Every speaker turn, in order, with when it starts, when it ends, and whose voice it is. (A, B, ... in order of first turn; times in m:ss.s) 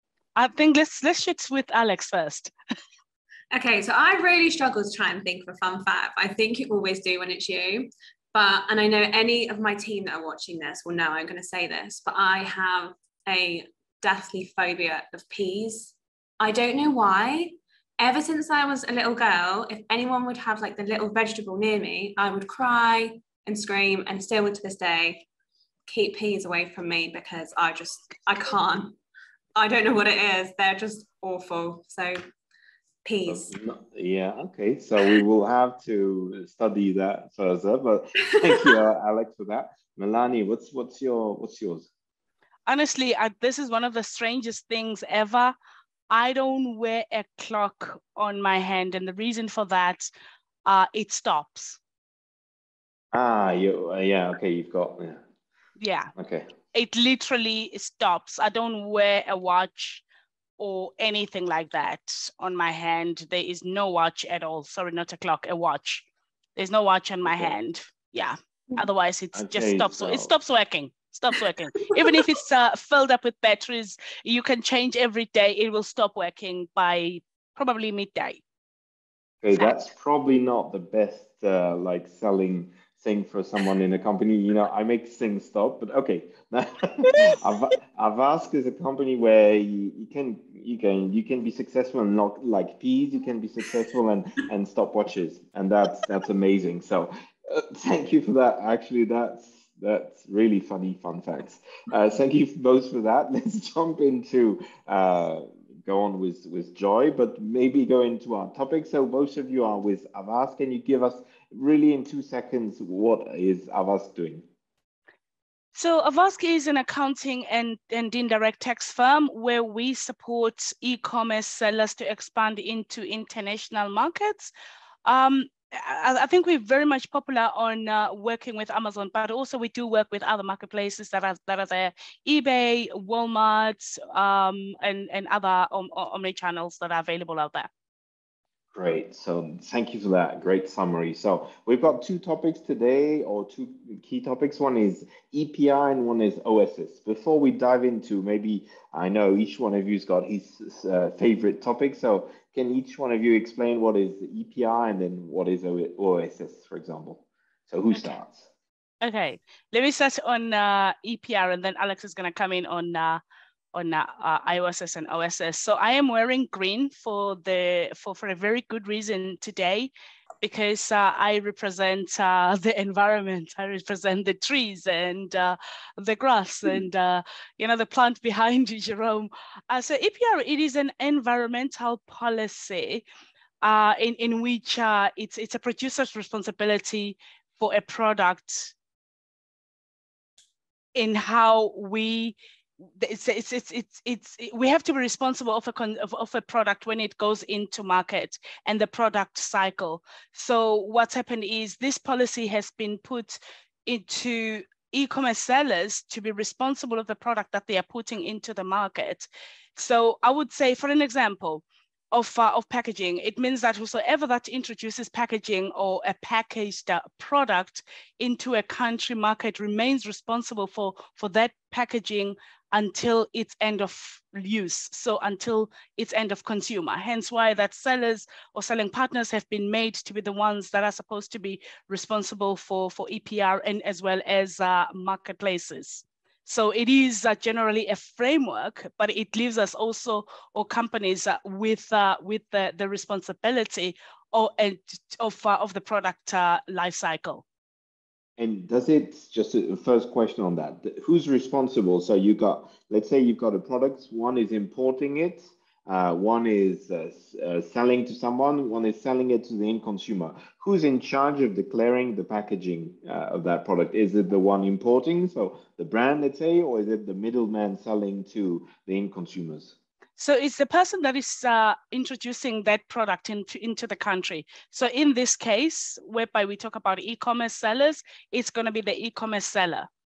0:00.4-0:02.5 A
0:03.5-0:25.2 B
0:25.9-0:29.0 B
0:29.6-0:32.2 B
0:33.0-0:33.5 B
0:33.3-0:41.9 C
0:42.7-0:45.5 A
0:46.1-0:50.1 A
0:50.6-0:51.8 A
0:53.1-0:55.2 C
0:55.8-0:56.1 A
0:56.2-0:56.5 C
0:56.7-1:00.0 A
1:00.6-1:18.4 A
1:07.2-1:07.5 C
1:09.3-1:10.3 C
1:19.4-1:54.4 C
1:55.7-2:04.5 A
2:05.0-2:17.7 A
2:18.7-2:38.5 C
2:39.0-2:43.2 A
2:43.7-3:03.0 A
3:03.6-3:08.7 A
3:10.9-3:12.4 A
3:13.0-4:07.4 A
4:08.4-4:29.7 C
4:30.2-4:39.9 A